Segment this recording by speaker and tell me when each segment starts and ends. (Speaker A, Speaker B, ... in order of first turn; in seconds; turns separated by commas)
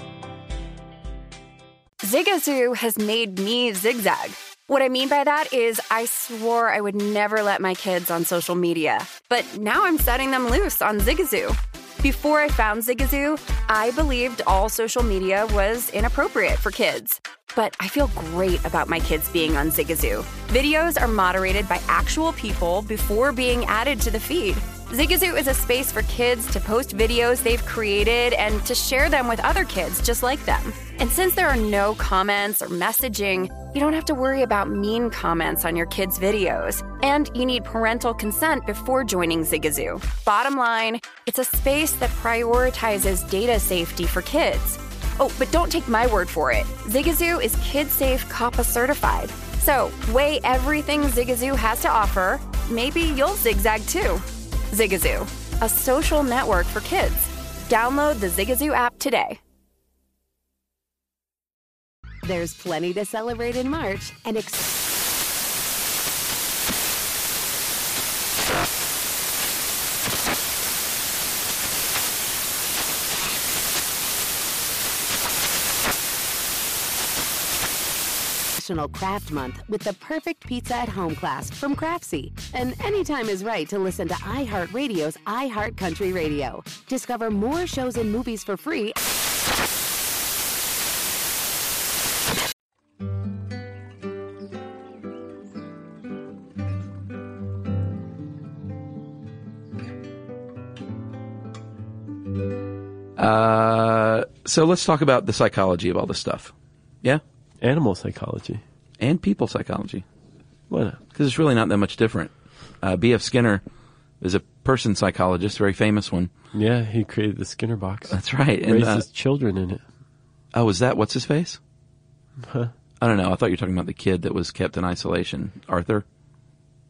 Speaker A: 2.0-59.4, Speaker B: 62.2-64.7, Speaker B: 78.6-89.0, Speaker C: 103.2-107.2, Speaker D: 107.6-108.6, Speaker C: 109.0-110.0, Speaker D: 110.7-111.0, Speaker C: 111.1-113.6, Speaker C: 114.2-116.3, Speaker D: 116.5-119.8, Speaker C: 118.1-119.0, Speaker C: 120.5-121.6, Speaker D: 122.4-122.7, Speaker C: 123.0-126.0